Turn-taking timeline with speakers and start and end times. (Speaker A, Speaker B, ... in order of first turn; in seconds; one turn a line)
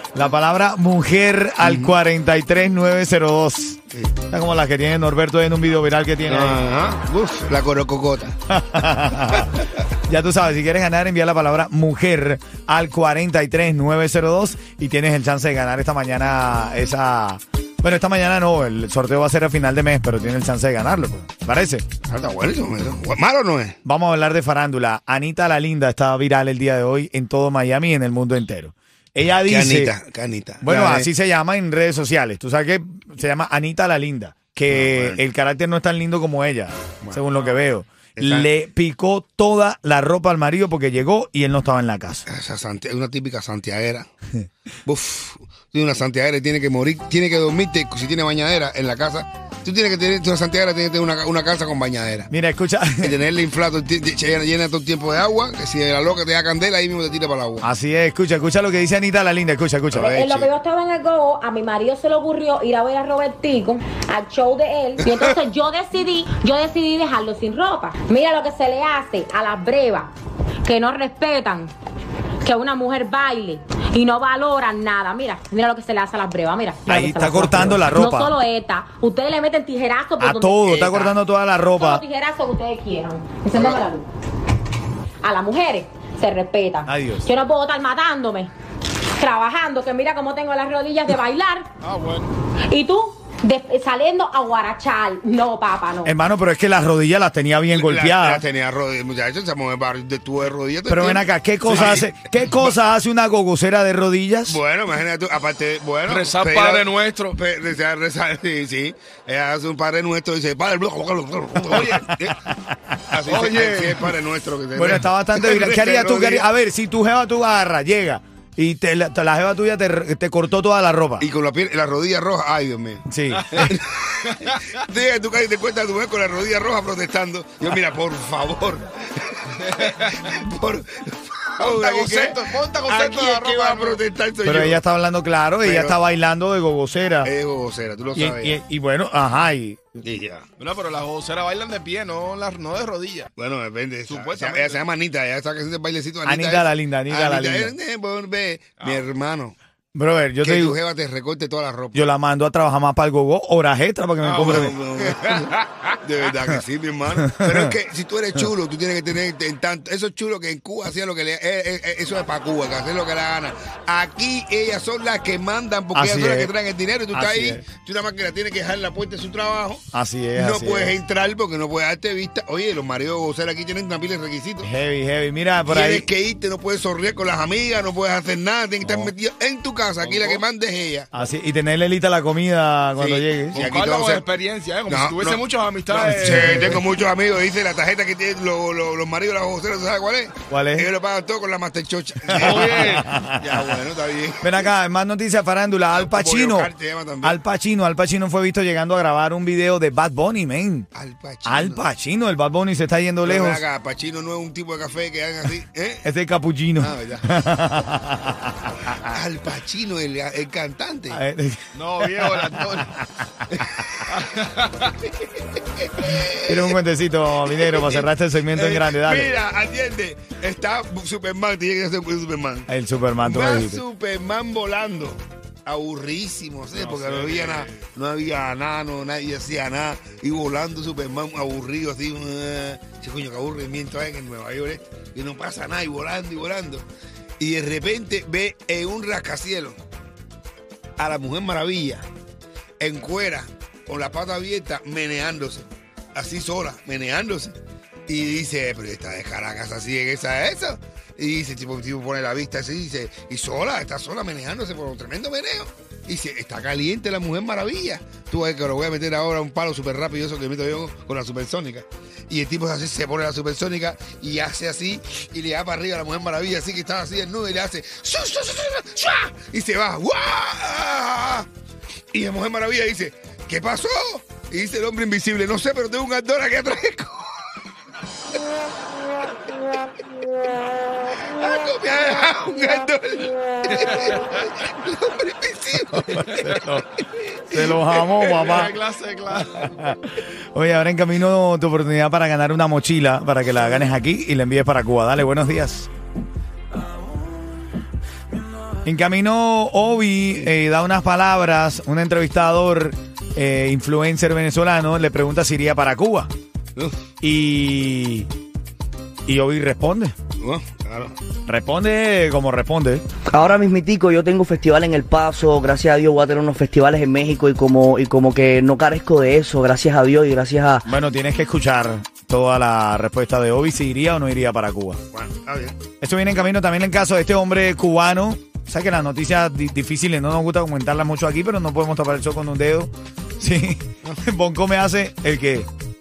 Speaker A: 0.1-6.6
Speaker B: 1.6-2.0
Speaker B: 6.3-8.4
Speaker A: 8.5-9.5
Speaker A: 10.1-21.8
Speaker B: 22.1-23.8
Speaker A: 23.9-29.9
Speaker B: 29.5-31.1
Speaker A: 30.6-42.3
Speaker B: 34.7-35.2
Speaker B: 38.2-38.5
Speaker B: 42.3-44.1
Speaker B: 44.9-52.3
Speaker A: 52.3-53.2
Speaker B: 53.0-57.6
Speaker A: 57.6-60.1
Speaker B: 59.9-60.5
Speaker C: 60.0-70.1
Speaker C: 70.6-71.7
Speaker C: 72.4-81.1
Speaker A: 76.9-78.3
Speaker A: 80.2-82.0
Speaker C: 81.8-84.1
Speaker B: 83.5-83.8
Speaker C: 85.2-88.5
Speaker A: 86.9-87.3
Speaker C: 89.2-91.7
Speaker D: 91.8-92.3
Speaker C: 92.7-96.2
Speaker A: 96.0-98.4
Speaker B: 97.7-102.7
Speaker A: 100.9-104.6
Speaker B: 104.5-112.4
Speaker D: 106.1-107.4
Speaker D: 111.7-112.1
Speaker A: 111.9-113.0
Speaker B: 113.1-116.5
Speaker D: 113.3-114.1
Speaker A: 114.8-121.3
Speaker B: 121.2-134.8
Speaker A: 123.1-123.8
Speaker D: 124.3-124.8
Speaker D: 129.7-130.3
Speaker D: 131.6-134.0
Speaker A: 134.4-137.3
Speaker B: 135.6-136.0
Speaker B: 137.2-138.6
Speaker A: 138.2-140.0
Speaker B: 140.1-140.5
Speaker D: 140.6-143.3
Speaker B: 143.4-149.6
Speaker D: 144.1-144.8
Speaker A: 146.2-147.8
Speaker D: 148.8-149.1
Speaker A: 149.9-150.8
Speaker B: 150.4-152.1
Speaker A: 151.9-154.8
Speaker D: 154.2-155.9
Speaker B: 154.3-174.7
Speaker A: 157.2-157.7
Speaker A: 165.9-166.5
Speaker A: 167.1-167.6
Speaker A: 169.9-171.0
Speaker A: 174.6-176.1
Speaker B: 175.6-181.1
Speaker A: 178.8-179.1
Speaker D: 180.0-180.4
Speaker A: 181.1-183.7
Speaker B: 183.0-184.2
Speaker D: 183.6-186.8
Speaker B: 184.9-194.5
Speaker A: 186.0-186.8
Speaker A: 190.5-190.9
Speaker A: 192.3-193.7
Speaker D: 192.3-193.1
Speaker A: 194.4-196.7
Speaker B: 195.9-197.4
Speaker A: 197.2-200.9
Speaker B: 200.9-201.8
Speaker A: 201.5-203.6
Speaker B: 203.2-206.1
Speaker A: 206.0-209.2
Speaker B: 206.8-207.3
Speaker B: 209.0-211.2
Speaker A: 211.1-212.9
Speaker D: 211.7-212.9
Speaker B: 213.5-214.0
Speaker D: 214.1-214.9
Speaker B: 215.4-216.8
Speaker A: 216.3-219.3
Speaker B: 217.7-222.7
Speaker A: 222.7-223.8
Speaker B: 223.2-236.9
Speaker D: 226.7-227.8
Speaker B: 237.4-239.8
Speaker B: 241.0-242.1
Speaker B: 242.8-247.6
Speaker B: 248.1-271.5
Speaker B: 272.1-277.6
Speaker B: 281.2-288.3
Speaker D: 283.7-284.5
Speaker A: 285.9-286.9
Speaker D: 286.3-286.6
Speaker A: 287.5-288.8
Speaker D: 288.2-289.7
Speaker A: 289.3-295.9
Speaker A: 298.8-306.3
Speaker A: 307.2-308.3
Speaker A: 309.3-310.1
Speaker B: 310.4-311.2
Speaker A: 311.5-313.1
Speaker E: 313.3-320.8
Speaker A: 320.9-325.0
Speaker B: 325.1-325.8
Speaker A: 326.0-335.7